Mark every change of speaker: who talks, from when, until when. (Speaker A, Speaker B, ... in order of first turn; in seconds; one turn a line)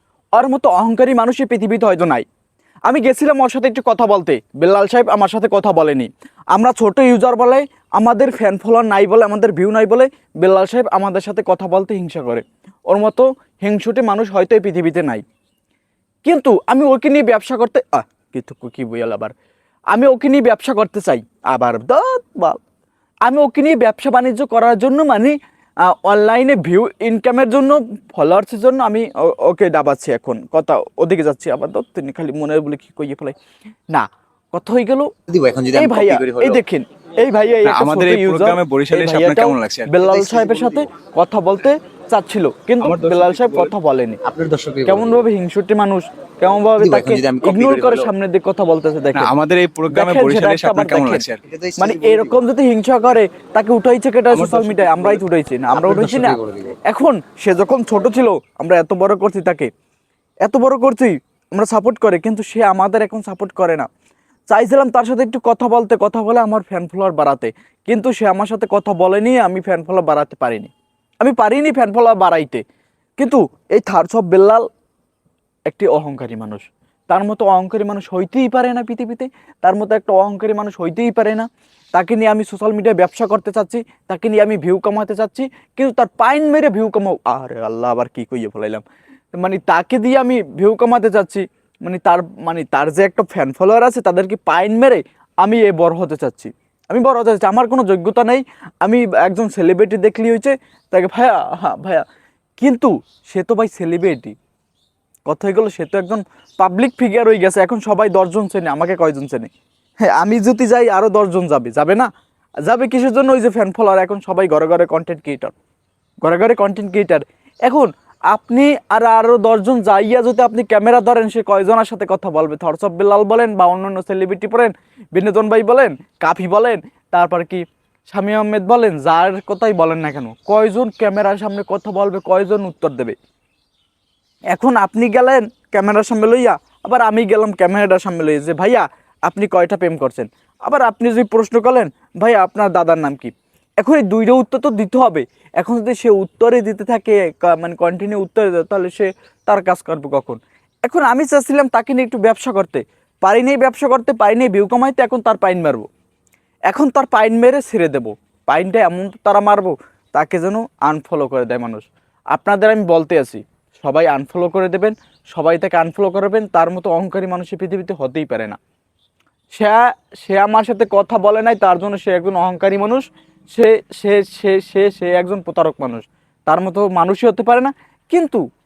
Speaker A: 0.3-2.2
Speaker A: 2.9-15.2
Speaker A: 16.2-19.3
Speaker A: 19.9-22.6
Speaker A: 23.2-25.4
Speaker A: 25.9-33.4
Speaker A: 33.9-35.1
Speaker B: 35.3-36.6
Speaker A: 35.7-44.2
Speaker C: 37.6-40.0
Speaker B: 40.0-40.9
Speaker C: 42.8-43.7
Speaker B: 44.2-45.2
Speaker A: 44.8-49.3
Speaker B: 46.8-48.1
Speaker C: 49.1-51.4
Speaker A: 49.9-51.2
Speaker B: 51.4-52.4
Speaker A: 51.8-59.7
Speaker C: 54.3-55.1
Speaker B: 55.7-56.7
Speaker A: 60.4-63.9
Speaker A: 64.5-70.7
Speaker A: 71.2-72.6
Speaker A: 73.2-74.6
Speaker A: 75.7-88.8
Speaker A: 89.3-102.0
Speaker A: 102.6-104.3
Speaker A: 105.3-109.5
Speaker A: 110.0-112.1
Speaker A: 112.6-115.5
Speaker A: 116.2-133.1
Speaker A: 134.5-155.9
Speaker A: 156.7-168.6
Speaker A: 169.5-178.4